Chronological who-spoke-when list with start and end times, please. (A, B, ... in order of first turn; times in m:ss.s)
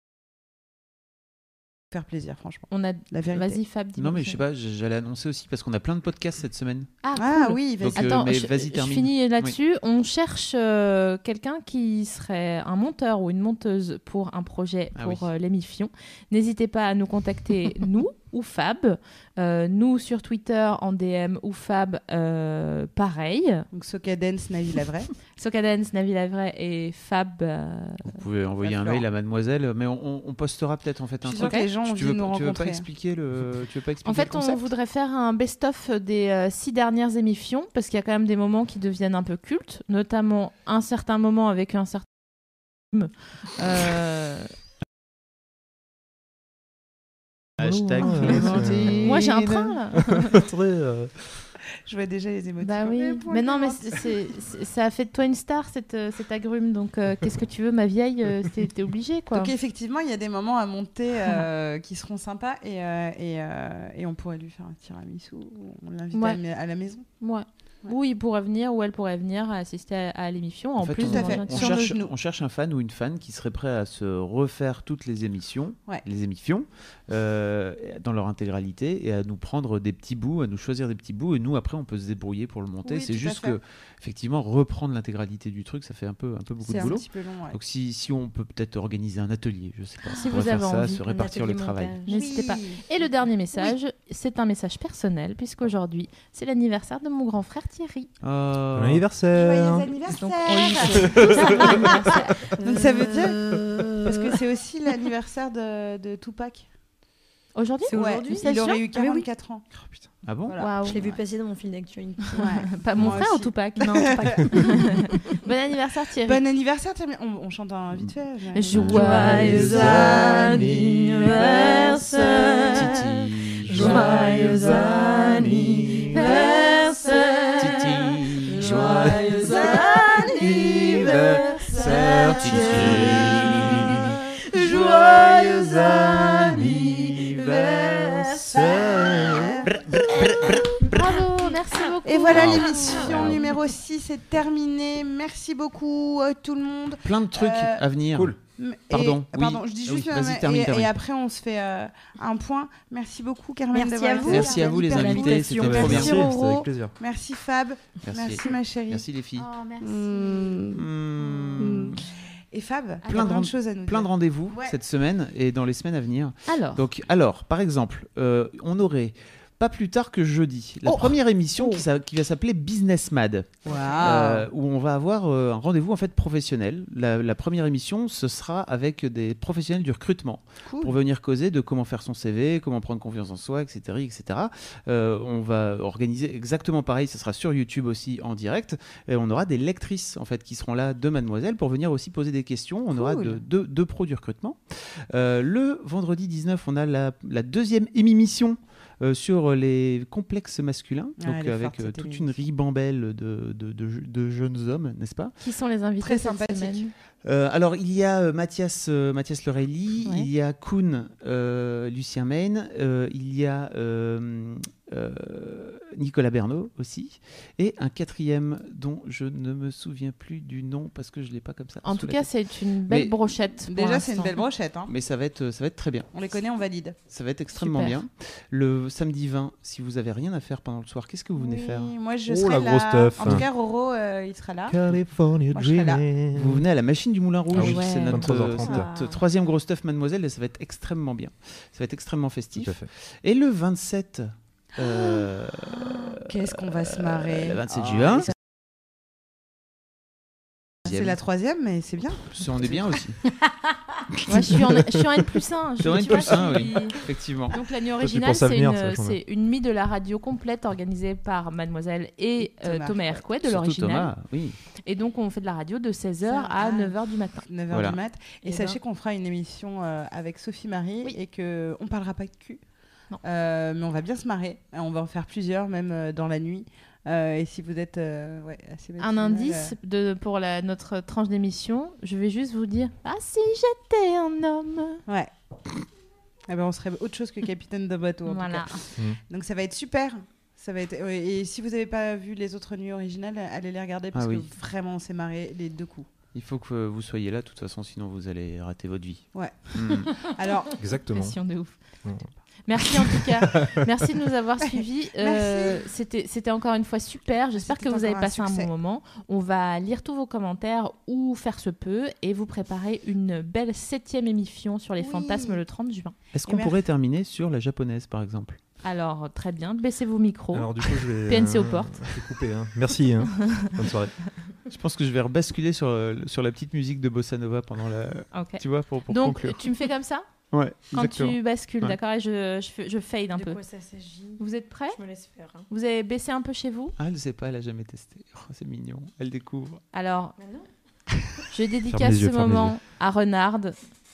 0:01.9-0:03.6 A
0:02.7-0:04.4 B
0:04.0-0:06.9 C
0:07.0-0:23.6 B
0:07.2-0:08.1 A
0:07.8-0:09.6 C
0:14.9-0:15.3 C
0:23.7-0:25.1 A
0:25.4-0:28.2 B
0:28.0-0:34.6 C
0:28.6-0:29.0 A
0:31.2-0:32.8 A
0:31.4-0:31.6 B
0:34.0-0:42.1 B
0:42.9-0:44.5 B
0:47.6-0:49.7 C
0:47.6-0:51.5 D
0:48.0-0:50.3 B
0:51.8-0:54.2 A
0:52.6-0:59.5 B
0:59.3-1:07.1 A
1:06.1-1:06.4 B
1:07.2-1:11.9 B
1:10.8-1:32.0 C
1:11.0-1:12.1 A
1:22.8-1:23.6 A
1:26.6-1:27.6 A
1:30.1-1:31.0 B
1:31.0-1:32.2 E
1:32.0-1:38.1 B
1:32.1-1:32.8 A
1:38.2-1:39.0 C
1:38.7-1:39.9 D
1:39.3-1:41.8 A
1:40.1-1:42.4 B
1:40.9-1:42.2 D
1:41.5-1:41.9 E
1:42.6-1:44.4 E
1:42.6-1:43.4 A
1:44.0-1:46.7 A
1:47.6-1:48.8 B
1:47.8-1:49.2 E
1:47.9-1:51.2 A
1:50.2-1:50.8 C
1:50.6-1:51.0 B
1:50.8-1:52.7 E
1:52.4-1:54.8 A
1:52.7-1:56.4 B
1:53.8-1:55.3 E
1:56.2-2:00.6 A
1:58.5-2:00.2 B
1:58.7-2:01.5 C
1:58.9-2:19.5 E
2:02.7-2:06.0 C
2:06.1-2:06.4 B
2:07.6-2:09.4 C
2:08.8-2:09.4 D
2:10.8-2:14.1 D
2:12.3-2:13.9 C
2:14.7-2:20.5 D
2:20.8-2:23.0 B
2:22.0-2:27.8 A
2:22.3-2:23.5 C
2:27.0-2:28.4 C
2:28.6-2:39.0 A
2:28.9-2:30.9 C
2:33.7-2:36.2 E
2:34.2-2:36.3 C
2:35.6-2:36.9 D
2:38.0-2:39.5 C
2:39.3-2:40.6 B
2:39.8-2:40.8 A
2:40.7-2:42.0 C
2:41.6-2:44.8 A
2:43.0-2:43.5 B
2:43.0-3:25.4 C
2:46.4-2:46.8 B
2:53.6-2:54.5 A
3:00.6-3:00.9 A
3:12.9-3:13.4 A
3:21.2-3:22.4 A
3:25.4-3:26.9 B
3:26.0-3:26.8 A
3:27.2-3:42.3 C
3:41.8-3:44.4 B
3:42.8-3:43.2 C
3:43.7-3:44.9 A
3:44.9-3:46.1 C
3:46.1-3:47.0 A
3:47.0-3:52.0 C
3:47.5-3:48.0 B
3:51.4-3:54.8 A
3:52.2-3:53.4 D
3:54.7-3:56.6 D
3:55.5-3:56.1 A
3:56.3-4:08.3 C
3:57.5-3:58.9 D
3:57.6-3:59.2 E
3:57.6-3:58.8 B
4:02.6-4:02.9 D
4:04.8-4:08.3 A
4:10.8-4:13.0 A
4:10.9-4:11.2 C
4:12.2-4:13.2 C
4:14.2-4:24.1 B
4:15.8-4:17.6 C
4:18.0-4:19.2 D
4:22.6-4:23.2 A
4:23.4-4:24.6 C
4:24.8-4:27.4 B
4:26.2-4:32.6 A
4:27.7-4:28.0 C
4:28.4-4:28.8 E
4:33.2-4:39.7 A
4:39.0-4:45.0 B
4:46.5-4:56.1 A
4:48.2-4:48.8 B
4:54.1-4:54.5 C
4:56.3-5:00.2 C
4:59.3-5:00.7 A
5:00.8-5:01.4 D
5:01.1-5:01.8 B
5:02.0-5:02.3 D
5:02.6-5:16.2 B
5:02.8-5:04.1 D
5:04.7-5:05.9 A
5:07.6-5:08.7 A
5:15.0-5:15.6 A
5:16.3-5:18.6 C
5:16.4-5:16.8 A
5:18.8-5:22.1 B
5:20.5-5:24.1 D
5:24.7-5:29.7 C
5:28.3-5:30.2 B
5:30.5-5:32.0 C
5:30.9-5:33.6 B
5:33.3-5:35.6 E
5:34.4-5:35.0 B
5:35.7-5:36.9 B
5:37.0-5:39.8 C
5:39.9-5:40.4 B
5:40.4-5:40.7 E
5:41.5-5:43.8 B
5:41.9-5:42.8 D